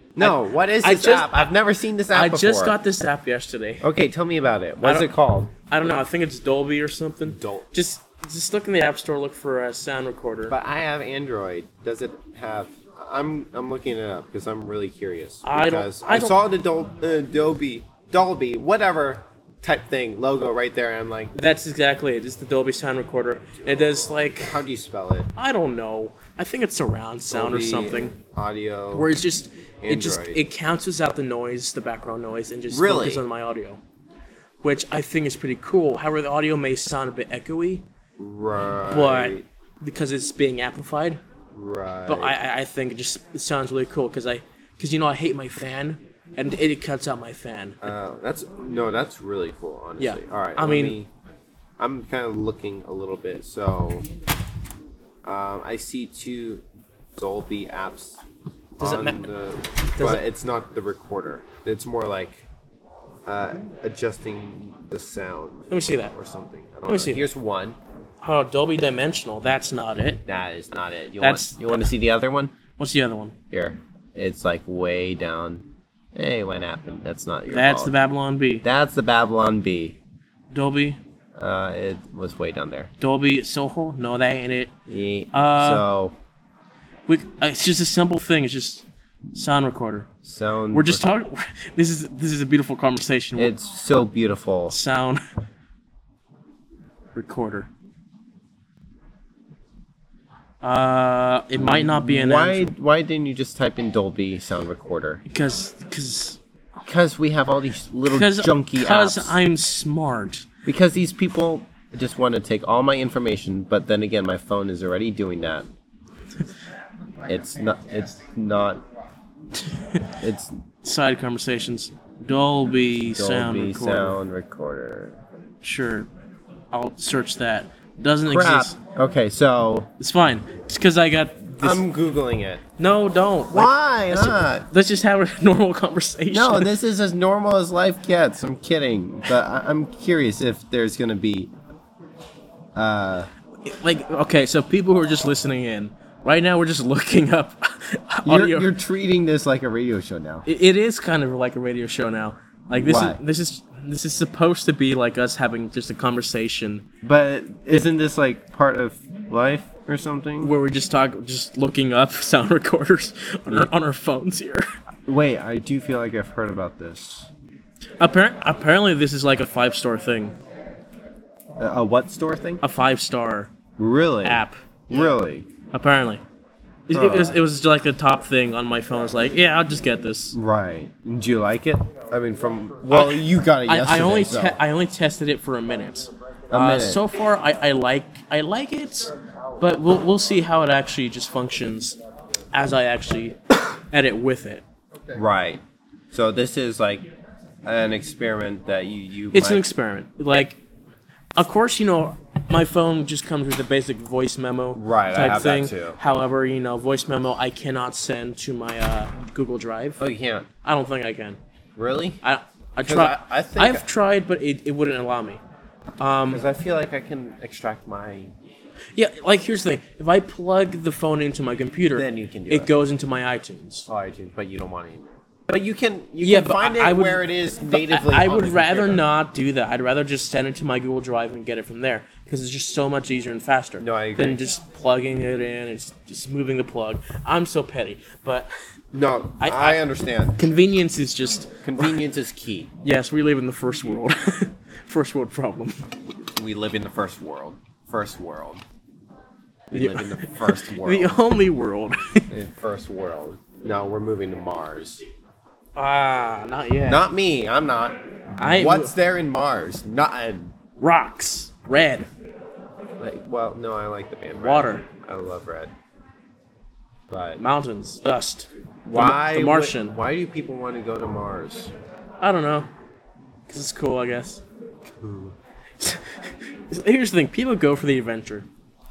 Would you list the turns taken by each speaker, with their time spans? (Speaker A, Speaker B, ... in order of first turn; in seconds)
Speaker A: 0.2-2.8, 3.8-5.5, 7.3-7.7, 10.5-21.3, 24.4-25.3, 27.3-29.1, 29.8-30.4, 32.7-33.2, 38.2-39.4, 41.5-42.3, 47.8-51.1, 51.8-54.0, 55.2-56.6, 57.1-58.2, 58.8-62.4, 63.2-67.8, 70.3-72.5, 73.5-77.9, 78.6-80.0, 81.4-82.9, 84.9-86.1, 90.2-91.0, 93.4-94.8, 101.5-105.2, 106.8-109.3, 110.6-115.7, 117.3-118.8, 120.2-120.6, 123.1-125.2, 128.3-129.9, 131.6-132.6, 133.5-134.7, 136.3-141.5, 142.7-143.3, 148.2-150.4, 152.8-153.2, 157.0-160.5, 165.1-167.3, 171.6-172.6, 173.8-175.5, 176.9-177.4, 180.3-184.6, 186.5-187.0, 195.1-197.1, 197.6-199.6, 204.7-206.0, 210.0-210.5, 211.8-212.2, 212.8-213.8, 216.3-218.3, 221.9-222.7, 223.9-229.0, 233.8-234.4, 238.9-240.4, 241.6-242.7, 246.3-248.6, 249.7-251.1, 252.3-255.0, 256.9-260.5, 263.0-265.7, 267.1-267.4, 268.8-271.7, 275.0-275.3
Speaker B: 0.2-1.4, 2.1-3.8, 4.8-5.1, 5.7-10.6, 15.4-16.3, 21.3-24.6, 25.4-28.1, 28.9-33.8, 34.6-37.8, 38.9-41.2, 42.1-47.8, 50.0-51.0, 58.8-59.3, 60.0-60.2, 65.7-66.1, 66.8-67.2, 68.2-70.2, 71.2-71.9, 72.8-73.3, 77.5-78.6, 80.5-81.0, 83.0-84.7, 85.3-85.8, 87.1-90.1, 90.7-93.5, 94.7-95.2, 97.1-97.7, 100.6-102.7, 105.3-106.4, 108.1-110.5, 119.8-120.1, 120.8-124.2, 125.6-126.1, 126.7-128.8, 130.0-131.8, 132.8-136.7, 143.6-148.7, 150.4-156.8, 160.4-164.7, 168.0-170.3, 172.6-173.5, 174.2-175.1, 175.7-176.2, 176.9-180.3, 182.9-192.0, 192.5-194.6, 199.3-200.6, 201.4-210.0, 210.6-211.4, 212.2-215.4, 216.0-216.4, 218.9-223.9, 226.2-238.5, 239.4-239.8, 240.4-241.9, 242.8-245.8, 249.7-252.3, 255.8-257.0, 258.4-258.9, 260.8-262.1, 264.4-264.8, 267.4-269.9, 272.2-272.7, 273.5-274.4, 275.8-278.5